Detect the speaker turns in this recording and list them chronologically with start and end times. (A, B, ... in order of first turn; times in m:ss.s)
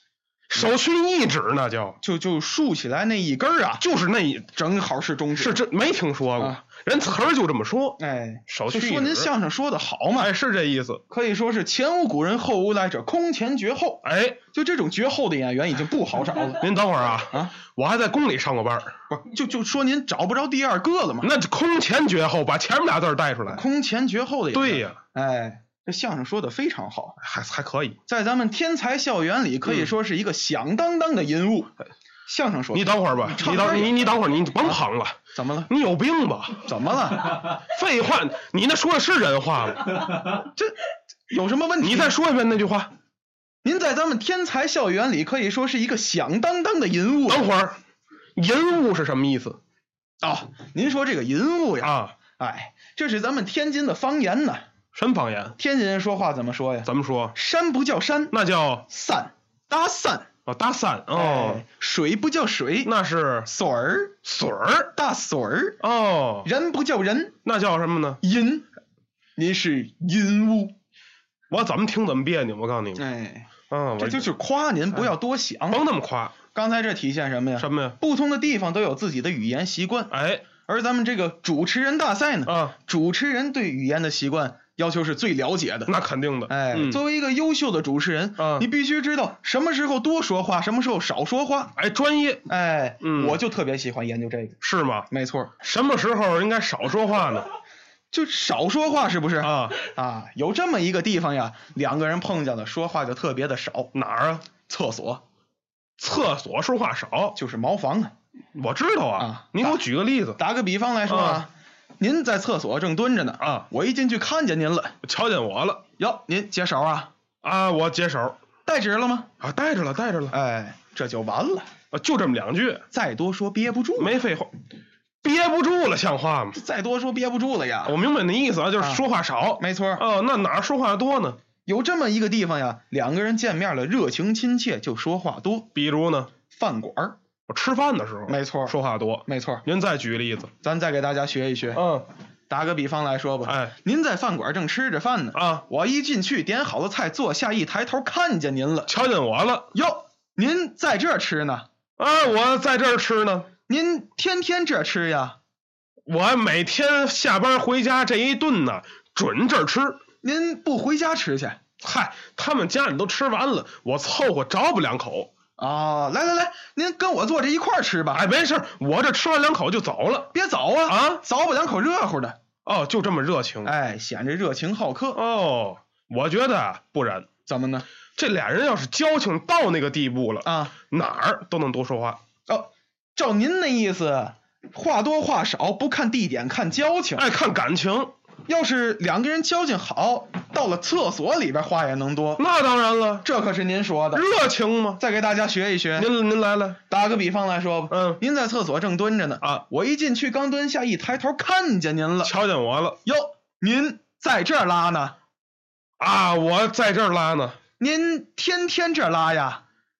0:00.5-0:02.0 A
0:02.0-0:03.8 B
0:03.8-0:04.5 A
0:04.5-0:05.6 B
0:05.4-0:09.3 A
0:08.0-0:10.3 B
0:10.2-0:11.0 A
0:11.1-0:16.7 B
0:14.0-0:14.4 A
0:16.5-0:18.9 A
0:19.1-0:21.3 B
0:21.2-0:23.6 A
0:23.5-0:27.2 B
0:24.5-0:25.0 A
0:27.2-0:28.0 A
0:28.0-0:31.7 B
0:32.3-0:34.0 B
0:32.7-0:35.2 A
0:35.3-0:35.7 B
0:35.7-0:36.7 A
0:36.6-0:37.5 B
0:37.2-0:40.3 A
0:40.3-0:40.8 B
0:41.3-0:42.2 B
0:41.8-0:42.9 A
0:43.6-0:47.5 B
0:47.3-0:47.8 A
0:48.4-0:49.6 A
0:50.2-0:54.6 B
0:51.8-0:52.1 A
0:54.9-0:55.6 A
0:55.6-0:58.3 B
0:56.8-0:57.3 A
0:58.3-0:58.8 A
0:58.9-1:00.3 B
1:00.4-1:01.6 A
1:01.1-1:02.9 B
1:02.8-1:03.5 A
1:03.4-1:04.2 B
1:04.2-1:04.9 A
1:04.9-1:05.8 B
1:05.8-1:06.5 A
1:06.4-1:07.3 B
1:07.4-1:08.2 A
1:08.2-1:08.6 B
1:09.4-1:10.7 B
1:11.5-1:13.0 A
1:13.0-1:15.8 B
1:13.7-1:14.3 A
1:15.7-1:16.3 A
1:16.5-1:20.1 B
1:17.6-1:18.0 A
1:20.1-1:20.4 A
1:20.6-1:26.0 B
1:22.4-1:22.7 A
1:25.9-1:27.0 A
1:26.5-1:31.7 B
1:28.4-1:28.7 A
1:31.8-1:32.4 A
1:32.5-1:34.6 B
1:33.0-1:33.4 A
1:34.6-1:35.1 A
1:35.1-1:35.5 B
1:35.6-1:37.5 A
1:38.1-1:43.9 B
1:39.4-1:39.8 A
1:43.9-1:44.5 A
1:44.7-1:45.2 B
1:46.0-1:47.3 A
1:47.3-1:48.1 B
1:48.5-1:50.4 A
1:49.2-1:49.8 B
1:50.4-1:55.0 B
1:51.1-1:51.4 A
1:53.4-1:53.7 A
1:55.0-1:55.8 A
1:56.0-1:57.1 B
1:57.4-1:58.4 A
1:58.6-1:59.3 B
1:59.4-2:00.3 A
2:00.3-2:01.7 B
2:01.9-2:02.8 A
2:02.9-2:04.1 B
2:04.0-2:04.5 A
2:05.2-2:06.6 A
2:06.5-2:08.0 B
2:07.8-2:11.4 A
2:08.8-2:09.0 B
2:09.6-2:10.0 B
2:11.6-2:15.7 B
2:15.7-2:16.3 A
2:16.5-2:17.2 B
2:17.5-2:20.5 A
2:18.3-2:19.6 B
2:20.6-2:21.8 B
2:21.7-2:22.0 A
2:22.5-2:28.9 B
2:23.4-2:23.7 A
2:25.3-2:25.6 A
2:28.9-2:29.7 A
2:29.7-2:31.6 B
2:32.0-2:33.5 A
2:33.7-2:35.4 B
2:36.1-2:40.0 A
2:40.2-2:41.6 B
2:41.8-2:45.3 A
2:45.6-2:48.2 B
2:48.1-2:50.3 A
2:50.3-2:52.4 B
2:50.9-2:51.2 A
2:52.6-2:53.7 A
2:53.6-2:55.2 B
2:55.1-2:57.3 A
2:57.4-2:57.9 B
2:58.2-3:02.2 A
3:00.4-3:00.7 B
3:02.5-3:07.3 B
3:07.2-3:08.1 A
3:08.5-3:12.4 B
3:12.4-3:13.2 A
3:13.2-3:14.3 B
3:14.1-3:15.0 A
3:15.0-3:16.1 B
3:16.0-3:16.8 A
3:16.9-3:22.3 B
3:17.9-3:18.2 A
3:22.2-3:23.0 A
3:23.0-3:25.2 B
3:26.0-3:27.6 A
3:27.8-3:29.6 B